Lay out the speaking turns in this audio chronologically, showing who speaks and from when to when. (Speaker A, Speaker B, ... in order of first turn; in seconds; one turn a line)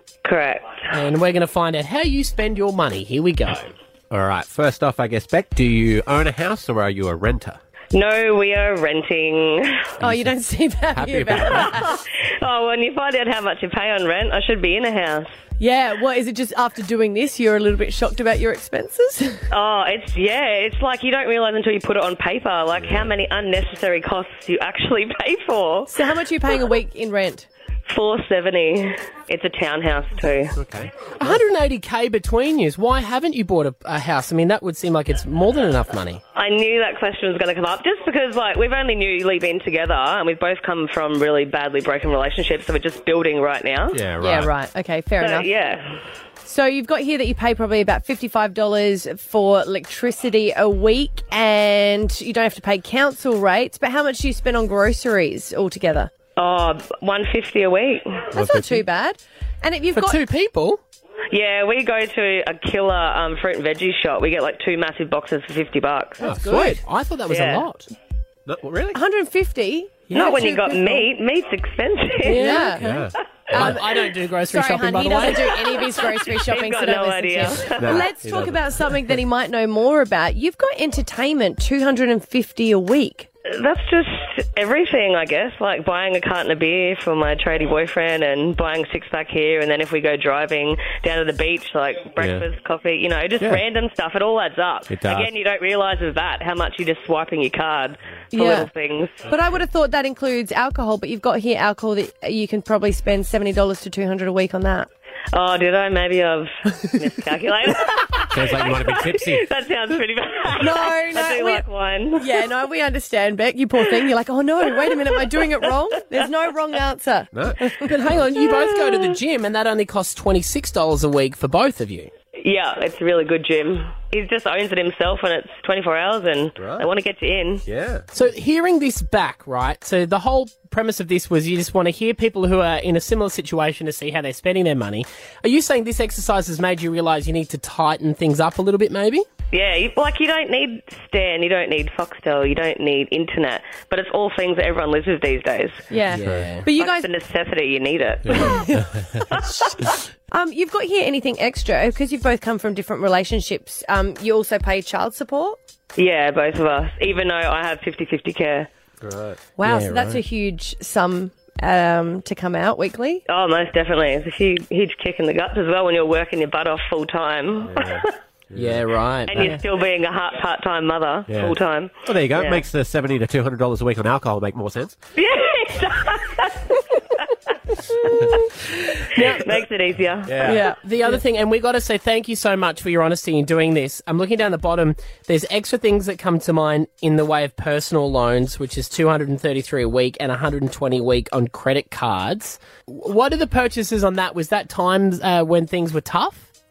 Speaker A: 0.2-0.7
Speaker B: 0.9-3.7
Speaker C: 4.1-7.6
Speaker A: 7.9-9.9
Speaker C: 10.0-10.3
Speaker D: 10.0-12.0
Speaker C: 10.9-11.8
Speaker A: 11.6-15.3
Speaker D: 15.6-19.4
Speaker A: 19.5-25.9
Speaker C: 22.7-23.1
Speaker D: 25.9-27.5
Speaker A: 27.9-30.6
Speaker C: 30.5-30.9
Speaker B: 31.2-36.2
Speaker A: 36.4-44.0
Speaker C: 43.9-44.5
Speaker D: 44.2-45.5
Speaker A: 45.2-46.0
Speaker D: 46.4-56.1
Speaker A: 56.4-58.3
Speaker C: 58.3-58.8
Speaker D: 58.3-60.2
Speaker B: 60.0-60.8
Speaker A: 61.3-66.2
Speaker B: 66.2-67.9
Speaker C: 66.2-66.8
Speaker A: 67.3-67.6
Speaker C: 68.5-69.0
Speaker D: 68.9-71.1
Speaker A: 70.1-72.7
Speaker B: 72.2-75.5
Speaker D: 72.3-72.8
Speaker C: 72.8-73.8
Speaker D: 73.5-73.8
Speaker D: 74.5-83.3
Speaker A: 75.5-78.0
Speaker C: 77.8-78.6
Speaker A: 83.5-99.2
Speaker C: 92.2-92.4
Speaker C: 94.9-95.3
Speaker D: 98.3-98.7
Speaker D: 99.3-104.9
Speaker A: 105.3-112.4
Speaker C: 108.3-109.4
Speaker D: 110.6-111.7
Speaker D: 112.2-117.9
Speaker A: 114.9-115.2
Speaker B: 117.8-122.1
Speaker A: 118.4-119.0
Speaker A: 122.4-127.6
Speaker C: 126.6-126.9
Speaker C: 127.7-128.1
Speaker B: 128.1-139.2
Speaker A: 139.5-145.8
Speaker D: 145.9-147.1
Speaker B: 146.1-146.7
Speaker A: 146.8-148.6
Speaker D: 148.4-155.6
Speaker A: 149.3-149.6
Speaker A: 155.9-158.7
Speaker C: 159.0-159.4
Speaker D: 159.6-163.2
Speaker B: 159.6-160.2
Speaker A: 163.3-168.1
Speaker C: 167.6-168.8
Speaker B: 168.5-169.6
Speaker A: 169.3-172.6
Speaker C: 171.3-175.0
Speaker A: 175.2-176.5
Speaker B: 179.1-179.4
Speaker A: 179.2-180.6
Speaker C: 180.3-180.6
Speaker B: 180.4-196.5